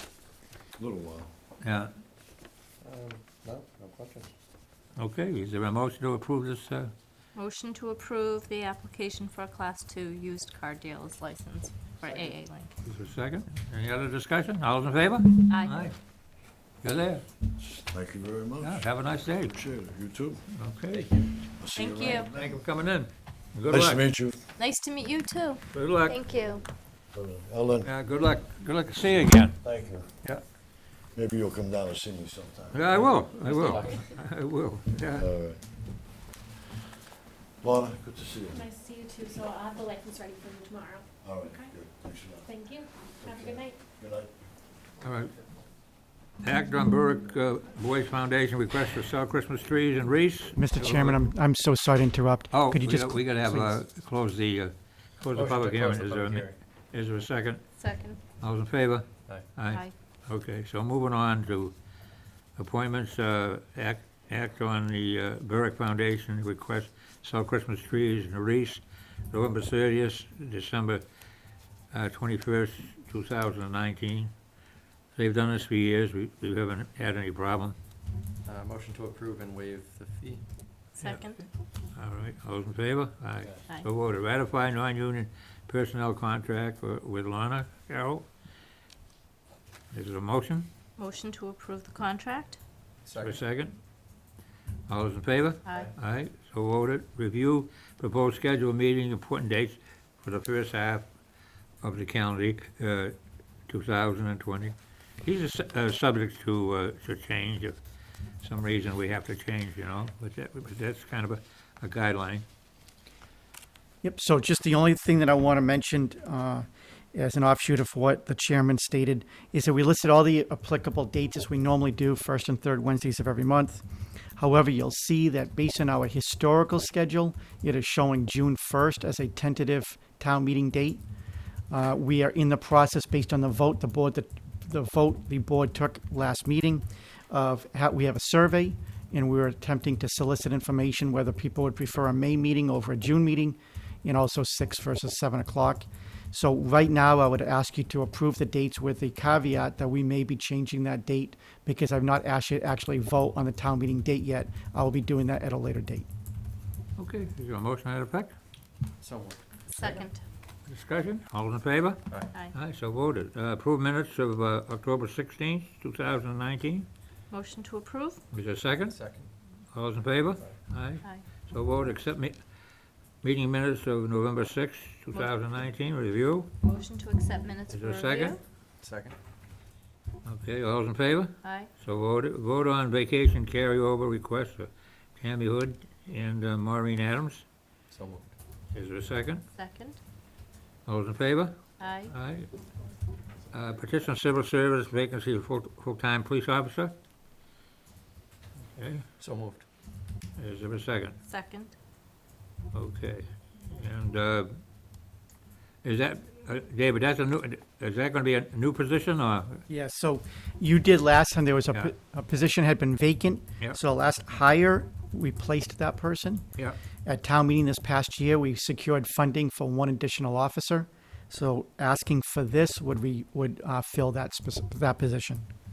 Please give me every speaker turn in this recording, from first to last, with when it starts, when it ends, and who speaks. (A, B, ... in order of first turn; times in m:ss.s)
0:00.8-0:01.3 A
0:01.6-0:01.9 B
0:02.8-0:04.3 C
0:05.0-0:06.9 B
0:07.3-0:12.7 D
0:12.0-0:12.3 C
0:12.8-0:16.0 B
0:15.5-0:15.9 D
0:16.8-0:17.2 B
0:17.6-0:20.4 A
0:18.6-0:19.6 B
0:20.5-0:21.2 B
0:20.9-0:21.4 C
0:21.5-0:22.6 A
0:21.8-0:22.3 D
0:22.3-0:24.0 B
0:23.7-0:24.4 A
0:24.6-0:26.6 D
0:25.7-0:26.2 B
0:27.1-0:27.9 A
0:27.8-0:29.6 B
0:29.6-0:30.1 A
0:31.1-0:32.9 A
0:32.7-0:35.3 B
0:32.9-0:34.1 C
0:35.1-0:35.6 A
0:37.6-0:38.6 A
0:38.5-0:41.7 E
0:41.2-0:44.3 A
0:42.4-0:43.8 E
0:45.0-0:45.3 B
0:46.4-0:51.2 B
0:50.5-0:53.8 F
0:52.5-0:57.6 B
0:55.3-0:56.6 C
0:57.8-0:58.2 D
0:58.4-1:01.7 B
1:02.6-1:11.0 B
1:11.9-1:14.3 B
1:15.1-1:17.8 B
1:18.4-1:20.4 C
1:21.0-1:21.4 D
1:21.0-1:28.2 B
1:29.9-1:30.7 B
1:31.0-1:32.6 D
1:33.0-1:33.4 C
1:33.2-1:33.8 B
1:34.9-1:41.1 B
1:35.6-1:35.9 D
1:41.8-1:43.2 B
1:43.7-1:47.8 B
1:48.4-1:52.4 B
1:54.0-2:03.8 F
2:04.4-2:11.0 F
2:11.7-2:36.1 F
2:37.0-2:38.3 B
2:39.0-2:40.0 C
2:39.7-2:40.2 D
2:40.7-2:46.9 B
2:47.3-2:48.2 D
2:48.3-2:49.0 B
2:48.9-2:49.3 C
2:49.7-2:52.4 B
2:53.2-2:56.5 B
2:56.6-2:58.4 D
2:57.7-2:58.4 B
2:58.8-2:59.2 C
3:00.2-3:07.4 B
3:01.4-3:01.7 D
3:07.9-3:08.3 C
3:08.7-3:09.4 B
3:09.5-3:10.0 D
3:10.8-3:12.5 B
3:11.8-3:12.1 D
3:13.5-3:16.9 B
3:18.8-3:19.0 B
3:19.2-3:19.6 C
3:20.4-3:21.2 B
3:21.3-3:21.7 D
3:22.7-3:24.6 B
3:25.8-3:29.6 B
3:29.7-3:36.5 F
3:37.0-3:45.4 F